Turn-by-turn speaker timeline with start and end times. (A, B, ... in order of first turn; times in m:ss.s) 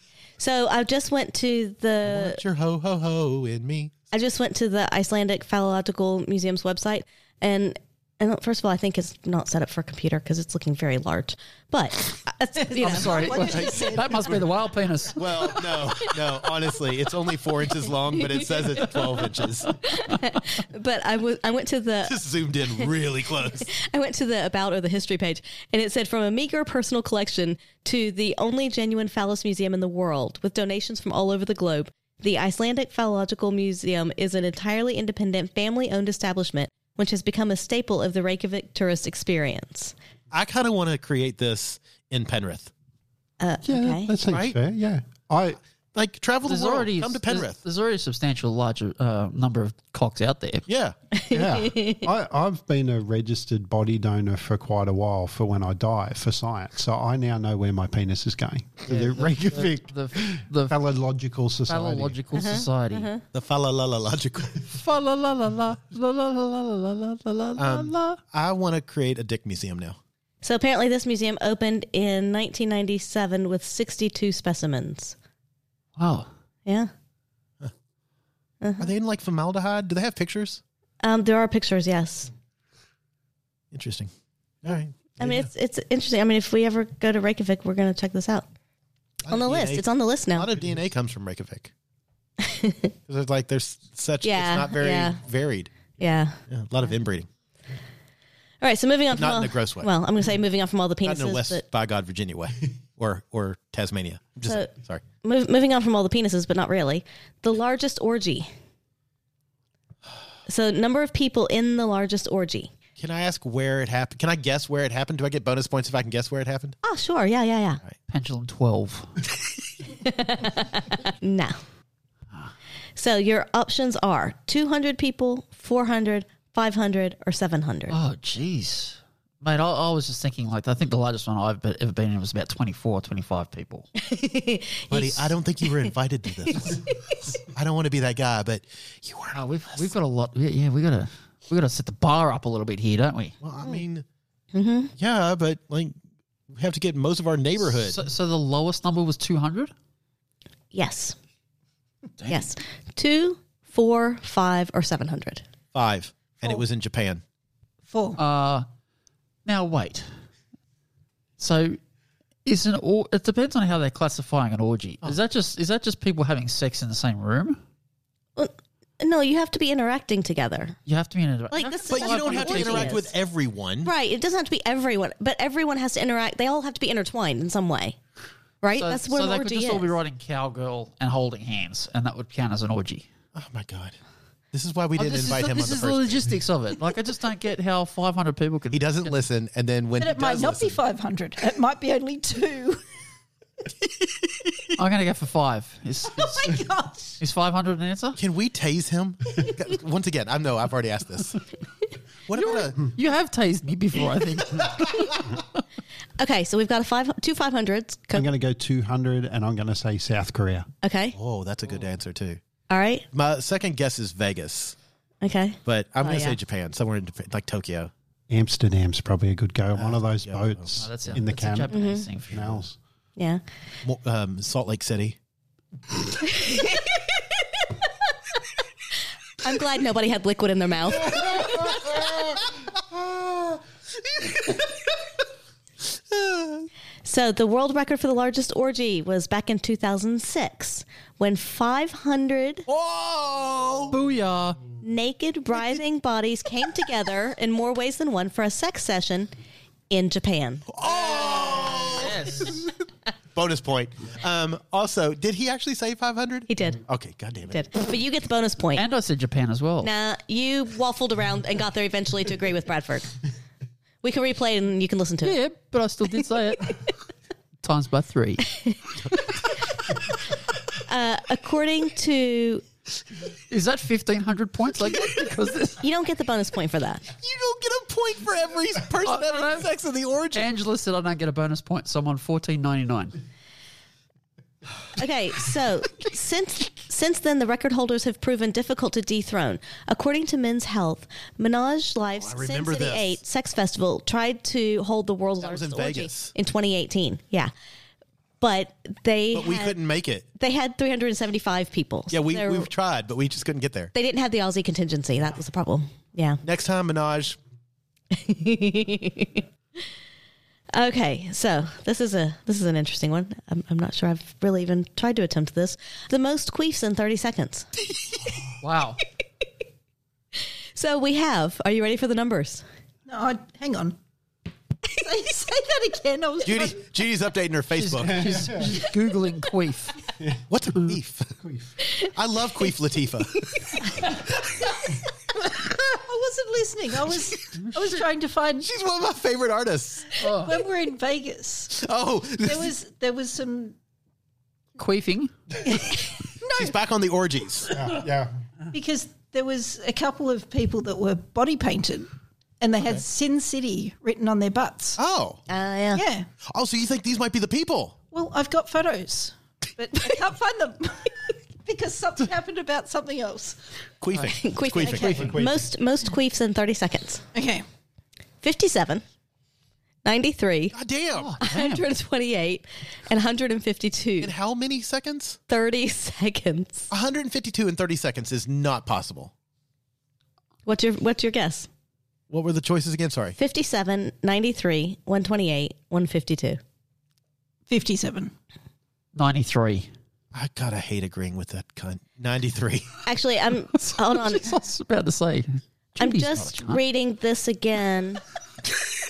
0:00.4-0:02.4 A
0:02.0-0:03.9 B
0:04.1-0:13.6 A
0:12.7-0:14.4 C
0:12.8-0:15.8 D
0:13.4-0:14.4 B
0:15.1-0:19.8 B
0:18.3-0:18.9 A
0:19.8-0:22.2 A
0:22.1-0:23.7 B
0:23.7-0:39.9 A
0:40.3-0:42.7 B
0:43.4-0:44.1 A
0:43.6-0:45.6 E
0:44.3-0:44.6 B
0:45.9-0:47.6 B
0:46.4-0:50.7 D
0:50.7-0:51.0 B
0:51.2-0:52.1 A
0:51.3-1:02.2 E
0:58.9-1:00.8 D
1:01.7-1:03.1 D
1:02.4-1:03.2 A
1:03.3-1:04.7 B
1:04.7-1:08.2 D
1:07.6-1:10.0 B
1:10.4-1:15.2 A
1:16.0-1:16.3 D
1:18.6-1:18.9 A
1:18.8-1:20.6 B
1:21.0-1:22.3 A
1:23.7-1:24.1 B
1:24.6-1:25.5 B
1:25.2-1:28.5 A
1:29.2-1:31.7 B
1:29.3-1:30.5 A
1:32.4-1:32.9 A
1:33.1-1:35.7 B
1:34.2-1:35.2 A
1:36.0-1:36.4 A
1:36.5-1:37.3 B
1:38.6-1:41.6 A
1:39.1-1:39.9 B
1:41.0-1:45.0 B
1:44.4-1:44.7 A
1:45.2-1:48.5 A
1:50.5-1:52.7 A
1:53.0-1:56.8 B
1:56.8-1:57.8 A
1:58.1-1:59.1 D
1:59.9-2:01.6 A
2:03.0-2:08.0 A
2:07.9-2:13.9 D
2:14.0-2:15.9 A
2:14.9-2:19.9 B
2:19.3-2:23.4 D
2:23.4-2:24.0 B
2:24.5-2:24.9 A
2:25.0-2:25.9 B
2:26.5-2:28.0 B
2:27.6-2:29.7 D
2:30.7-2:31.2 A
2:32.3-2:35.4 A
2:35.7-2:37.2 B
2:37.9-2:38.2 C
2:38.2-2:38.7 D
2:39.5-2:40.1 D
2:41.4-2:41.8 D
2:42.5-2:47.6 D
2:48.4-2:50.8 A
2:50.9-2:53.1 D
2:51.5-2:53.1 A
2:51.9-2:53.9 B
2:53.8-2:58.0 A
2:58.6-2:59.9 A
2:58.8-3:03.1 D
3:03.4-3:04.0 B
3:04.5-3:06.3 B
3:05.0-3:09.2 D
3:08.7-3:10.8 B
3:10.0-3:12.8 C
3:14.8-3:16.6 D
3:16.2-3:17.2 C
3:17.2-3:18.2 D
3:18.2-3:21.4 B
3:22.3-3:22.9 B
3:22.3-3:25.4 D
3:26.2-3:28.3 A
3:28.1-3:30.7 E
3:30.8-3:31.2 A
3:31.2-3:32.4 B
3:32.7-3:33.1 A
3:33.1-3:34.8 B
3:35.2-3:36.4 A
3:35.7-3:37.9 B
3:38.3-3:41.8 E
3:39.8-3:40.8 B
3:40.8-3:42.6 D
3:41.7-3:42.1 A
3:42.3-3:42.8 E
3:43.8-3:45.2 B
3:46.2-3:47.2 A
3:49.4-3:51.6 A
3:51.3-3:54.7 B
3:56.1-3:56.7 B
3:57.0-4:02.7 A
4:02.7-4:04.0 B
4:03.9-4:04.6 D
4:04.8-4:09.3 A
4:09.9-4:10.6 A
4:10.7-4:12.6 B
4:10.9-4:12.6 D
4:13.4-4:17.6 B
4:16.5-4:16.8 A
4:17.5-4:18.8 A
4:18.8-4:19.9 D
4:19.8-4:23.1 A
4:24.0-4:25.4 A
4:25.2-4:26.9 D
4:27.6-4:28.5 D
4:30.8-4:32.6 A
4:33.5-4:35.8 D
4:35.8-4:37.0 A
4:37.2-4:40.5 B
4:39.0-4:39.7 D
4:40.3-4:43.2 D
4:45.0-4:57.5 A
4:52.2-4:53.2 B
4:55.4-4:56.3 B
4:58.4-4:59.8 A
4:59.3-5:00.3 B
5:00.4-5:02.7 A
5:02.1-5:03.9 B
5:03.9-5:06.4 A
5:06.4-5:07.4 B
5:08.1-5:09.4 A
5:10.7-5:17.7 A
5:18.6-5:19.0 D
5:20.8-5:22.6 A
5:23.1-5:24.0 C
5:24.9-5:26.9 C
5:26.4-5:28.4 B
5:27.8-5:30.0 D
5:28.1-5:28.8 E
5:30.5-5:31.4 B
5:31.4-5:31.7 E
5:32.0-5:34.1 B
5:35.4-5:38.7 C
5:38.6-5:40.2 B
5:40.2-5:40.6 D
5:40.2-5:41.7 C
5:41.7-5:42.7 B
5:42.4-5:43.8 C
5:44.8-5:45.3 D
5:45.7-5:46.7 C
5:46.6-5:47.8 B
5:47.7-5:48.3 E
5:48.7-5:55.0 C
5:55.0-5:55.4 B
5:55.5-5:56.0 A
5:55.9-5:56.3 C
5:56.5-5:58.0 B
5:58.1-6:03.6 C
6:04.0-6:05.3 B
6:04.3-6:07.2 A
6:04.8-6:05.5 C
6:05.1-6:05.6 E
6:07.3-6:07.6 C
6:08.4-6:09.0 A
6:10.0-6:10.8 A
6:10.7-6:11.4 B
6:11.2-6:11.9 D
6:11.4-6:14.3 A
6:14.2-6:15.4 B
6:15.5-6:16.9 A
6:16.9-6:19.3 B
6:20.7-6:21.7 A
6:22.3-6:23.4 B
6:23.4-6:26.6 A
6:27.7-6:28.3 C
6:29.2-6:29.9 D
6:30.3-6:33.0 B
6:33.1-6:34.5 A
6:33.8-6:36.8 D
6:36.0-6:38.2 A